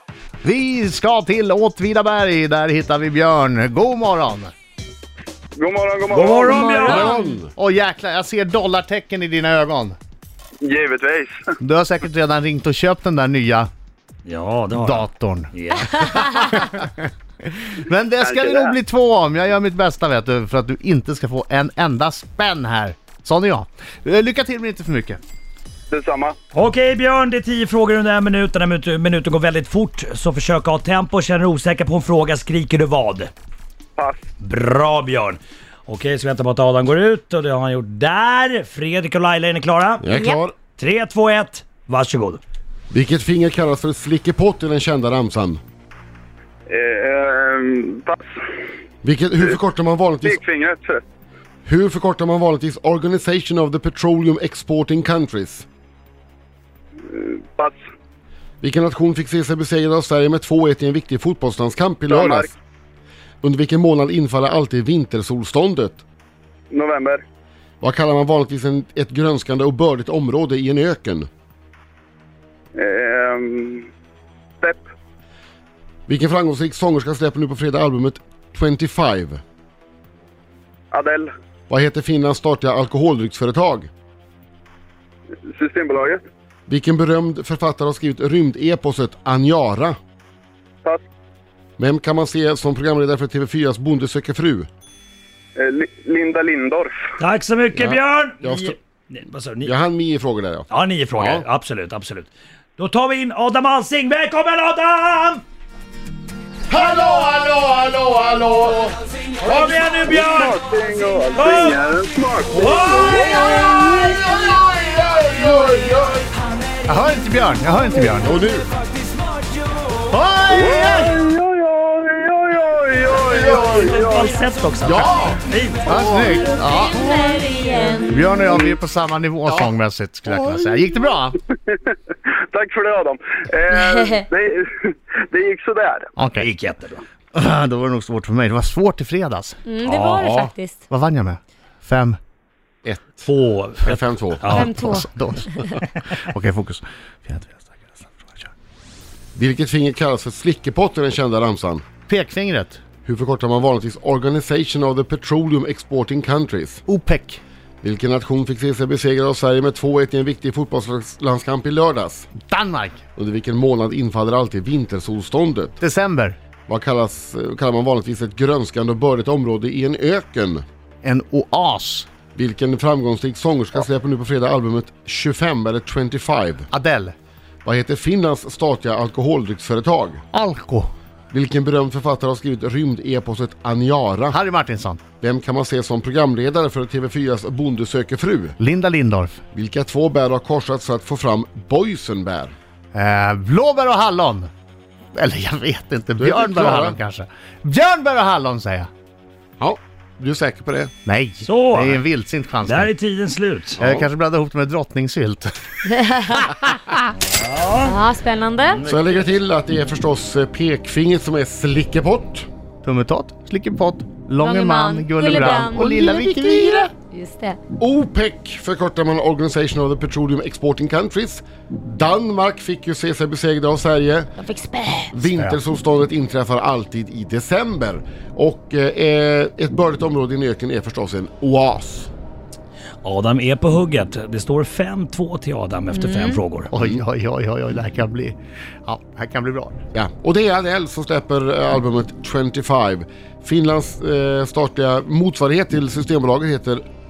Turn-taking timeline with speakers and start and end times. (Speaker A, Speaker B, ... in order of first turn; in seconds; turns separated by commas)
Speaker A: 0.4-4.5, Speaker B: 5.6-7.0, Speaker C: 6.1-7.2, Speaker D: 6.6-7.3, Speaker E: 6.8-7.5, Speaker A: 7.6-10.0, Speaker B: 10.6-11.3, Speaker A: 11.6-13.7, Speaker C: 14.2-16.4, Speaker A: 14.7-17.0, Speaker A: 17.7-25.2, Speaker B: 18.2-18.8, Speaker B: 25.9-26.4, Speaker C: 26.5-33.3, Speaker C: 34.4-40.0, Speaker E: 40.0-40.5, Speaker D: 40.1-40.4, Speaker C: 40.8-42.4, Speaker E: 42.9-45.6, Speaker B: 46.7-48.2, Speaker E: 49.0-50.4, Speaker B: 50.2-51.0, Speaker E: 51.6-55.6, Speaker B: 57.1-57.8, Speaker E: 58.6-62.5, Speaker B: 62.1-62.5, Speaker E: 63.4-66.0, Speaker B: 66.7-67.2, Speaker E: 67.8-71.3, Speaker B: 72.8-73.9, Speaker E: 76.1-79.4, Speaker B: 80.9-81.3, Speaker E: 81.7-83.9, Speaker B: 85.5-86.2, Speaker E: 86.7-90.0, Speaker E: 91.8-94.7, Speaker B: 95.6-96.9, Speaker C: 97.2-99.7, Speaker E: 97.8-98.8, Speaker E: 99.6-101.5, Speaker C: 100.7-105.4, Speaker E: 106.7-109.8, Speaker C: 109.4-110.6, Speaker B: 110.1-114.2, Speaker C: 111.3-111.8, Speaker C: 112.6-113.6, Speaker E: 113.4-116.3, Speaker A: 116.9-118.4, Speaker E: 118.2-118.7, Speaker A: 120.1-121.1, Speaker B: 120.5-124.4, Speaker E: 123.2-123.9, Speaker C: 123.7-125.8, Speaker E: 124.8-126.3, Speaker A: 125.9-131.4, Speaker D: 126.8-128.1, Speaker E: 130.3-130.7, Speaker B: 131.6-136.0, Speaker D: 133.9-134.2, Speaker A: 136.2-136.5, Speaker C: 136.3-137.0, Speaker A: 137.3-139.6, Speaker D: 139.7-140.8, Speaker C: 139.8-140.3, Speaker E: 140.2-140.5, Speaker A: 140.9-142.2, Speaker E: 142.8-143.3, Speaker C: 143.2-144.8, Speaker E: 143.8-144.6, Speaker D: 144.5-145.1, Speaker A: 144.6-148.5, Speaker E: 149.3-151.8, Speaker A: 152.1-152.8, Speaker E: 153.0-156.8, Speaker A: 156.8-157.4, Speaker E: 157.8-162.3, Speaker A: 162.4-163.0, Speaker E: 163.2-165.8, Speaker A: 165.8-166.4, Speaker E: 166.7-170.6, Speaker A: 171.0-172.1, Speaker E: 172.3-176.7, Speaker A: 176.7-177.1, Speaker E: 177.6-180.2, Speaker A: 180.3-180.9, Speaker E: 181.3-184.4, Speaker A: 184.3-185.0, Speaker E: 185.2-188.6, Speaker A: 188.6-189.4, Speaker E: 189.5-192.5, Speaker A: 192.9-194.5, Speaker A: 195.1-198.9, Speaker E: 196.2-197.0, Speaker E: 199.6-200.9, Speaker A: 201.1-202.9, Speaker C: 201.4-202.0, Speaker C: 202.6-203.8, Speaker A: 203.8-205.5, Speaker E: 203.8-204.1, Speaker D: 205.9-206.4, Speaker C: 207.2-208.0, Speaker D: 207.8-208.8, Speaker C: 208.7-209.3, Speaker E: 208.9-212.5, Speaker A: 212.8-216.9, Speaker D: 214.4-216.2, Speaker E: 215.2-216.9, Speaker D: 217.0-217.6, Speaker E: 217.8-224.3, Speaker D: 224.4-225.2, Speaker E: 225.1-232.1, Speaker C: 233.0-236.7, Speaker D: 235.9-236.4, Speaker A: 236.7-239.8, Speaker E: 236.7-237.0, Speaker E: 239.9-246.8